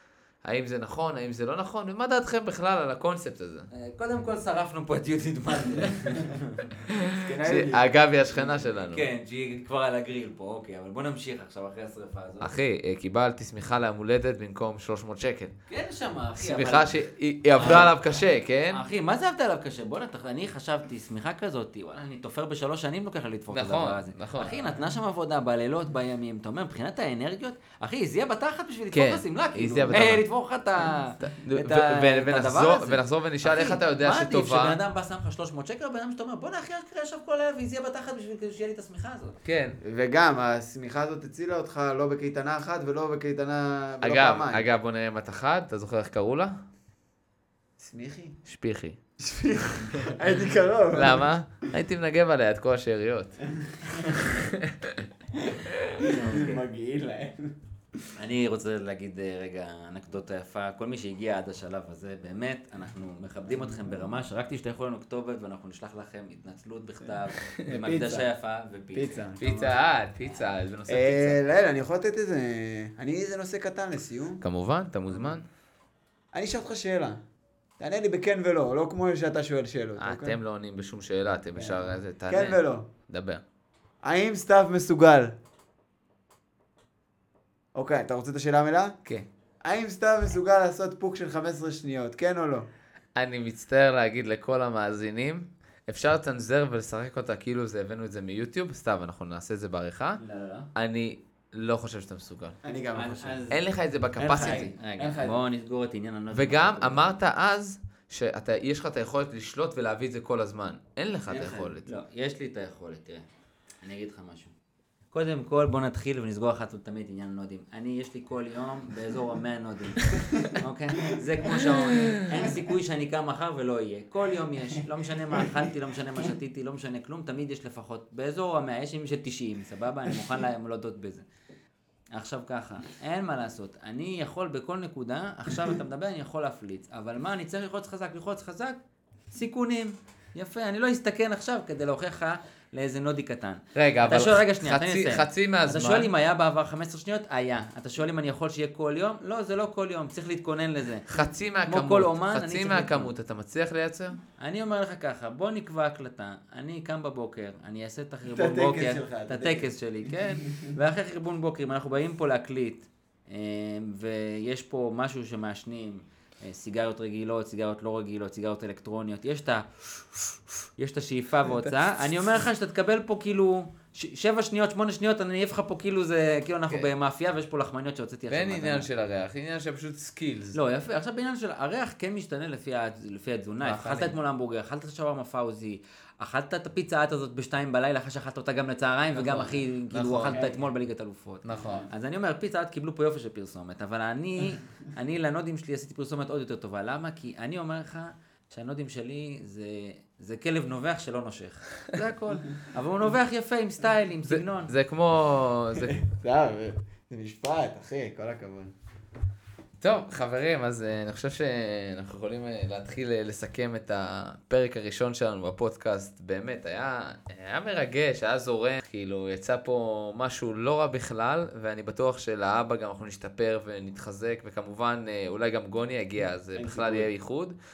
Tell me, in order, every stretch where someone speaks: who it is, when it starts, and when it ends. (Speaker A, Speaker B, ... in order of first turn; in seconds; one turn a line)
Speaker A: 0.4-3.7
Speaker B: 3.7-6.7
Speaker A: 6.9-9.1
Speaker C: 7.2-7.8
Speaker B: 8.3-12.5
Speaker A: 12.4-15.5
Speaker B: 15.7-17.0
Speaker A: 16.4-18.8
Speaker B: 17.6-18.0
Speaker B: 18.7-39.4
Speaker A: 23.5-24.6
Speaker A: 28.9-30.3
Speaker C: 29.8-30.1
Speaker A: 31.2-34.8
Speaker A: 39.4-39.8
Speaker C: 39.8-44.6
Speaker A: 44.0-46.5
Speaker C: 47.8-48.4
Speaker A: 48.4-49.0
Speaker C: 49.2-51.3
Speaker A: 50.9-55.0
Speaker C: 53.6-54.0
Speaker C: 55.4-58.0
Speaker A: 55.7-56.0
Speaker B: 56.0-56.6
Speaker B: 58.1-70.4
Speaker C: 67.7-68.3
Speaker C: 68.9-69.4
Speaker A: 69.4-71.4
Speaker C: 70.9-74.4
Speaker A: 74.4-75.5
Speaker C: 75.1-75.4
Speaker C: 76.3-77.2
Speaker C: 77.8-80.4
Speaker A: 80.0-83.4
Speaker C: 81.5-82.9
Speaker C: 84.0-85.3
Speaker C: 87.7-89.0
Speaker C: 89.6-92.7
Speaker A: 93.1-100.2
Speaker B: 100.2-100.7
Speaker A: 100.7-102.6
Speaker C: 102.6-103.5
Speaker B: 102.9-103.6
Speaker A: 103.5-104.7
Speaker C: 104.2-105.4
Speaker B: 104.3-107.1
Speaker A: 106.3-111.9
Speaker B: 111.3-113.2
Speaker B: 113.8-114.5
Speaker B: 115.1-131.2
Speaker C: 125.3-125.7
Speaker B: 132.1-138.8
Speaker B: 139.3-153.1
Speaker A: 143.7-146.1
Speaker A: 151.1-154.2
Speaker B: 154.4-178.9
Speaker C: 158.2-160.7
Speaker A: 178.3-180.6
Speaker B: 180.5-204.7
Speaker A: 183.6-184.2
Speaker A: 189.2-190.5
Speaker C: 190.2-190.6
Speaker A: 191.4-191.9
Speaker C: 191.6-191.9
Speaker A: 204.3-206.0
Speaker C: 205.7-208.7
Speaker A: 209.8-227.6
Speaker C: 226.5-227.1